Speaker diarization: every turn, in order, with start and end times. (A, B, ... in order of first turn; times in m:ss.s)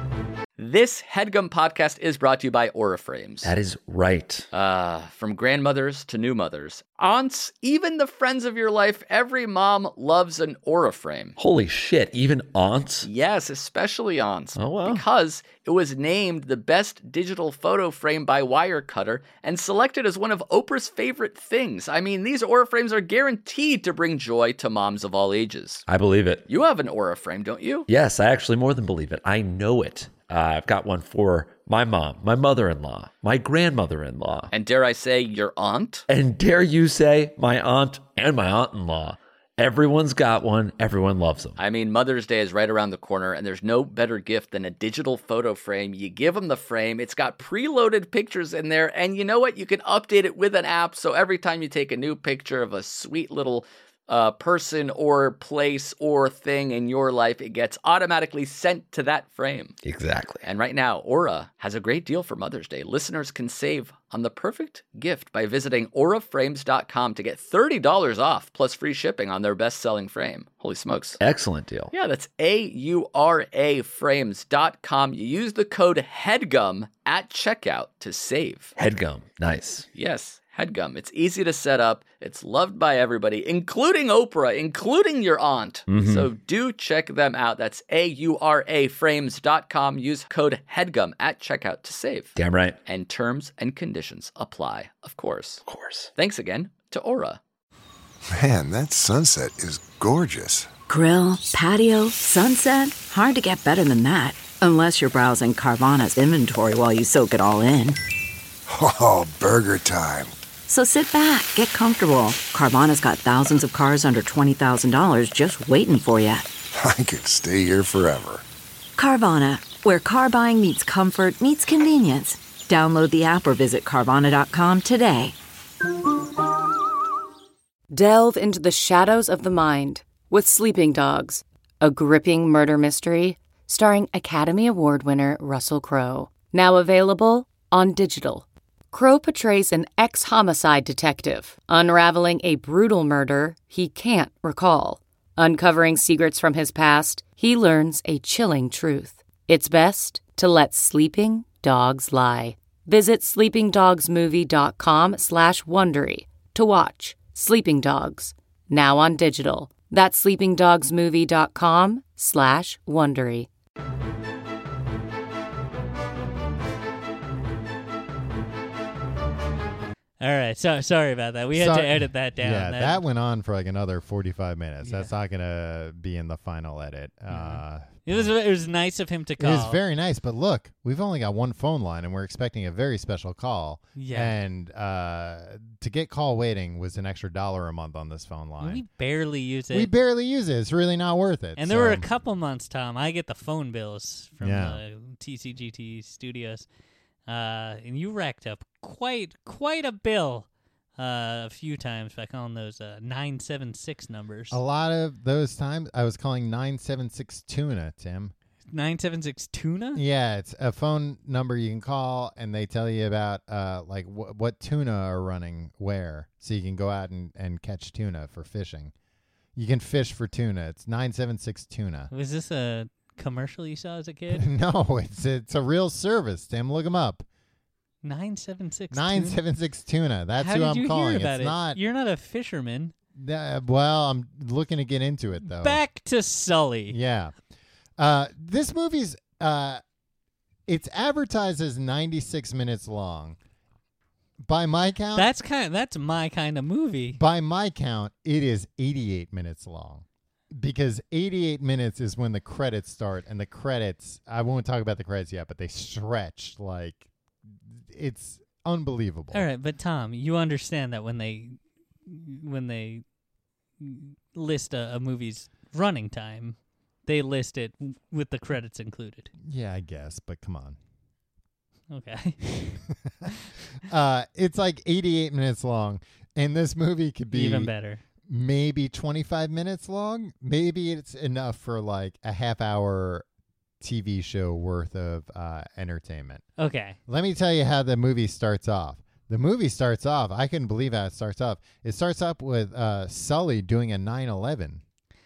0:00.6-0:03.5 A
0:03.4-0:04.5 B
0:04.5-0:11.4 A
0:11.4-0:13.1 B
0:13.0-0:25.8 A
0:14.6-0:15.0 B
0:25.9-0:26.5 B
0:26.5-0:27.8 A
0:27.9-0:34.5 B
0:34.5-0:36.0 A
0:36.1-0:41.6 B
0:41.6-0:59.8 A
0:59.8-1:00.4 B
1:00.4-1:11.2 A
1:11.2-1:11.9 B
1:11.9-1:18.7 A
1:18.8-1:19.9 B
1:19.9-1:32.3 A
1:25.9-1:26.3 B
1:32.4-1:32.8 B
1:32.9-1:35.6 A
1:35.6-1:36.1 B
1:36.2-1:37.4 A
1:38.3-1:40.7 C
1:40.9-1:48.0 D
1:48.7-1:50.4 C
1:50.7-1:56.5 D
1:56.7-1:58.4 C
1:59.0-2:05.4 D
2:07.9-2:43.5 E
2:50.2-2:53.0 F
2:51.5-2:58.3 G
2:54.8-2:55.1 F
2:57.3-2:59.8 F
2:59.4-3:08.8 G
3:04.0-3:04.3 F
3:08.6-3:09.9 F
3:09.7-3:12.1 G
3:11.6-3:16.7 F
3:14.4-3:14.8 G
3:17.3-3:24.6 F
3:24.5-3:28.3 G
3:28.7-3:30.0 F
3:30.0-3:38.9 G
3:39.6-3:42.1 G
3:42.1-3:44.5 F
3:44.3-3:47.2 G
3:48.0-3:49.4 F
3:48.9-3:51.8 G
3:50.4-3:52.9 F
3:53.2-3:55.8 G
3:55.4-3:57.0 F
3:56.9-3:57.4 G
3:58.0-3:59.8 G
4:00.7-4:03.4 G
4:04.4-4:05.3 G
4:05.2-4:07.2 F
4:07.2-4:19.5 G
4:19.3-4:23.0 F
4:23.8-4:29.3 F
4:29.4-4:30.8 G
4:31.9-4:33.3 F
4:33.8-4:37.7 G
4:37.3-4:38.0 F
4:38.2-4:43.3 G
4:43.8-4:46.4 G
4:46.6-4:47.0 F
4:47.1-4:54.8 G